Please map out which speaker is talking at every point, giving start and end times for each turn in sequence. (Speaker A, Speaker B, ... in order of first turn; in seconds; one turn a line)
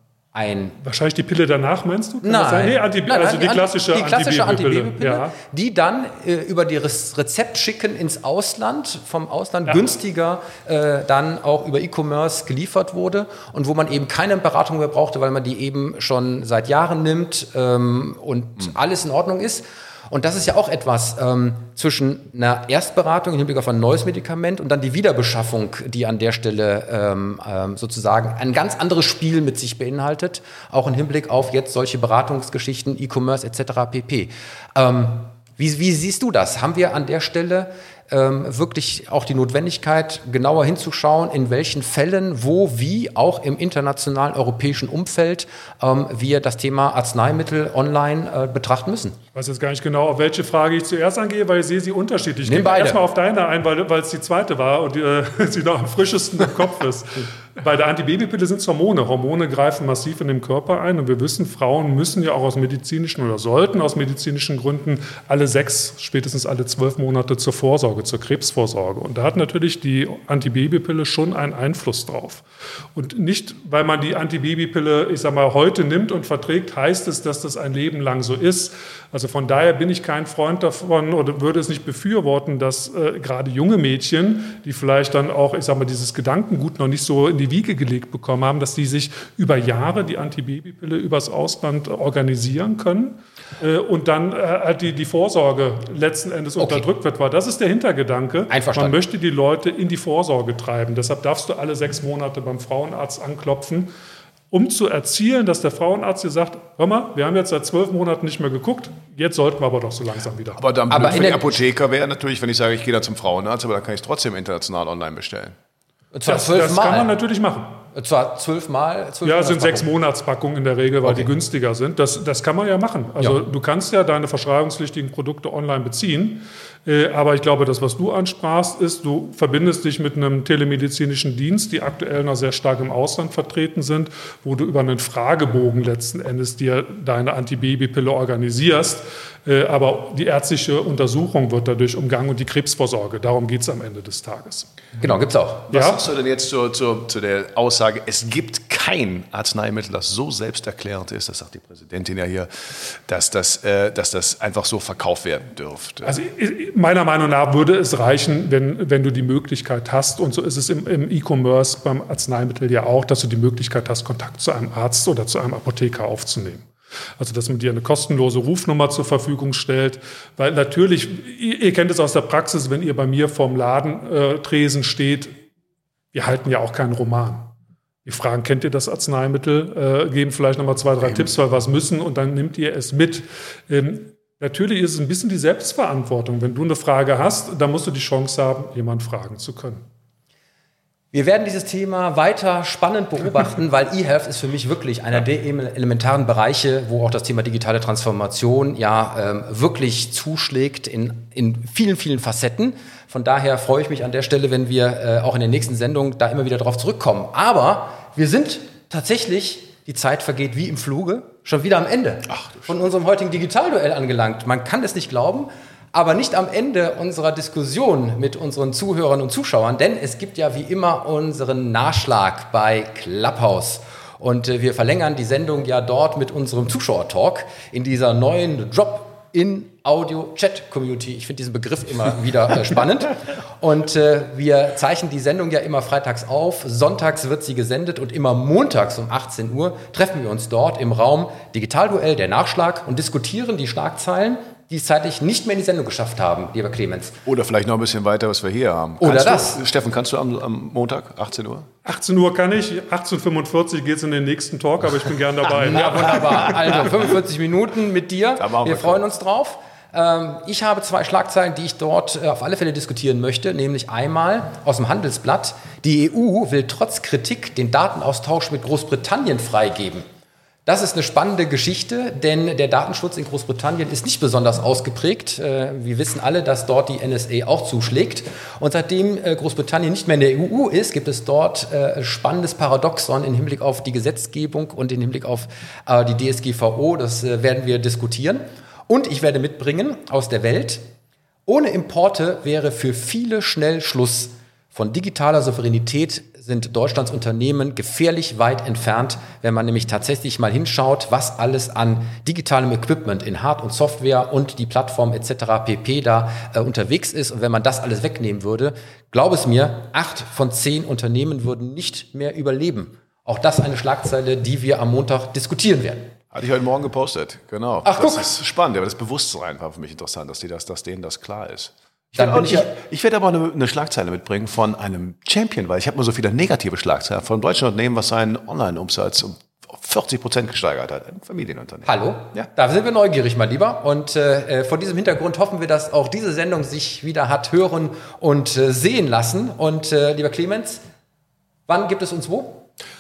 Speaker A: 0.3-0.8
Speaker B: 0.8-5.4
Speaker A: 2.2-49.2
Speaker B: 49.4-72.4
Speaker A: 52.4-53.0
Speaker B: 73.0-103.9
Speaker A: 96.6-96.9
Speaker A: 98.5-99.0
Speaker B: 104.5-110.6
Speaker C: 110.6-115.6
Speaker A: 110.9-111.6
Speaker A: 116.1-117.1
Speaker B: 116.3-117.8
Speaker A: 117.9-119.9
Speaker B: 119.2-144.7
Speaker A: 145.0-145.7
Speaker C: 145.7-156.2
Speaker B: 145.7-146.0
Speaker B: 156.0-175.3
Speaker B: 176.1-177.5
Speaker B: 178.1-189.8
Speaker A: 191.1-247.2
Speaker C: 212.3-212.7
Speaker C: 247.2-251.7
Speaker A: 249.0-249.6
Speaker B: 251.8-256.8
Speaker A: 255.4-270.1
Speaker C: 258.4-259.0
Speaker A: 270.7-290.8
Speaker A: 291.5-316.1
Speaker C: 316.3-332.5
Speaker A: 317.9-318.3
Speaker A: 322.2-322.7
Speaker A: 331.9-340.8
Speaker A: 341.7-342.7